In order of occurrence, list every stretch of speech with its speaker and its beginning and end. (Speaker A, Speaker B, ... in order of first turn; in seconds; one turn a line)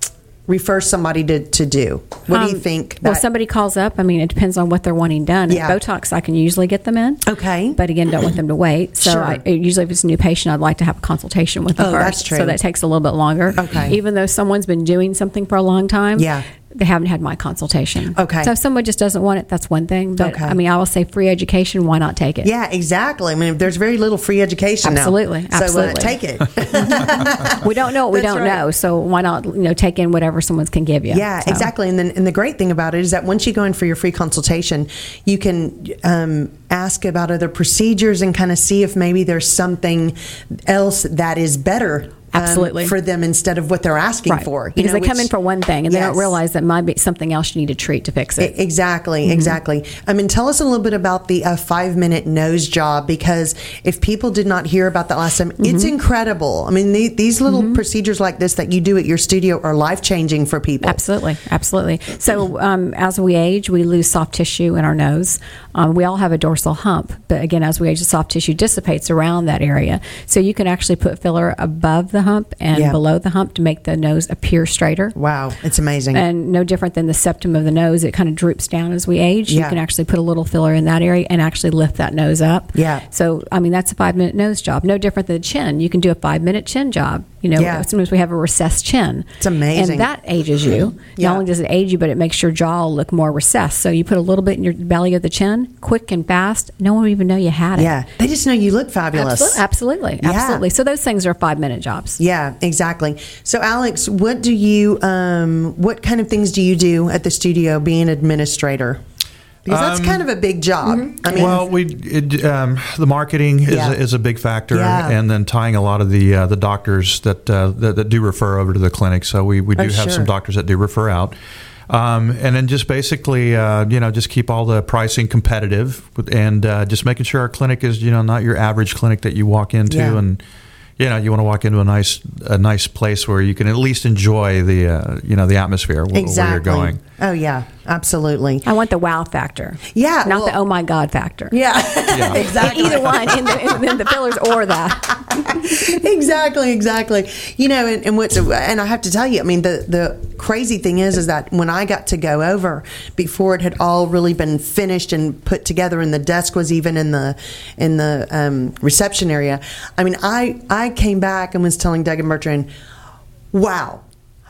Speaker A: 0.5-3.2
Speaker B: 2.3-7.2
Speaker A: 5.5-5.8
Speaker A: 7.3-7.8
Speaker B: 7.8-22.5
Speaker A: 9.0-9.4
Speaker A: 11.8-12.6
Speaker A: 13.6-14.0
Speaker A: 16.2-16.5
Speaker A: 18.1-18.5
Speaker A: 20.2-20.6
Speaker A: 22.4-28.6
Speaker B: 24.8-26.2
Speaker B: 26.8-31.7
Speaker A: 31.1-45.3
Speaker B: 42.3-43.0
Speaker B: 44.3-48.6
Speaker A: 45.9-46.4
Speaker A: 48.4-61.0
Speaker B: 49.3-49.6
Speaker B: 55.6-55.9
Speaker B: 57.5-57.8
Speaker B: 60.8-75.2
Speaker A: 72.7-73.0
Speaker A: 75.1-76.2
Speaker B: 76.1-98.0
Speaker A: 79.5-79.8
Speaker A: 82.8-83.0
Speaker A: 87.6-87.9
Speaker A: 89.4-90.1
Speaker A: 91.2-91.5
Speaker A: 97.8-99.6
Speaker B: 99.1-102.2
Speaker A: 100.2-100.7
Speaker A: 102.2-109.0
Speaker A: 109.7-111.6
Speaker C: 109.7-110.2
Speaker B: 110.8-111.5
Speaker C: 111.3-121.3
Speaker A: 113.7-114.0
Speaker A: 114.7-115.2
Speaker A: 119.8-120.3
Speaker C: 121.9-130.4
Speaker A: 129.9-130.2
Speaker C: 131.0-137.0
Speaker A: 136.1-138.7
Speaker B: 138.7-141.6
Speaker A: 139.9-140.6
Speaker A: 141.5-144.0
Speaker C: 142.1-143.0
Speaker B: 142.3-145.9
Speaker A: 145.1-162.7
Speaker A: 163.5-164.0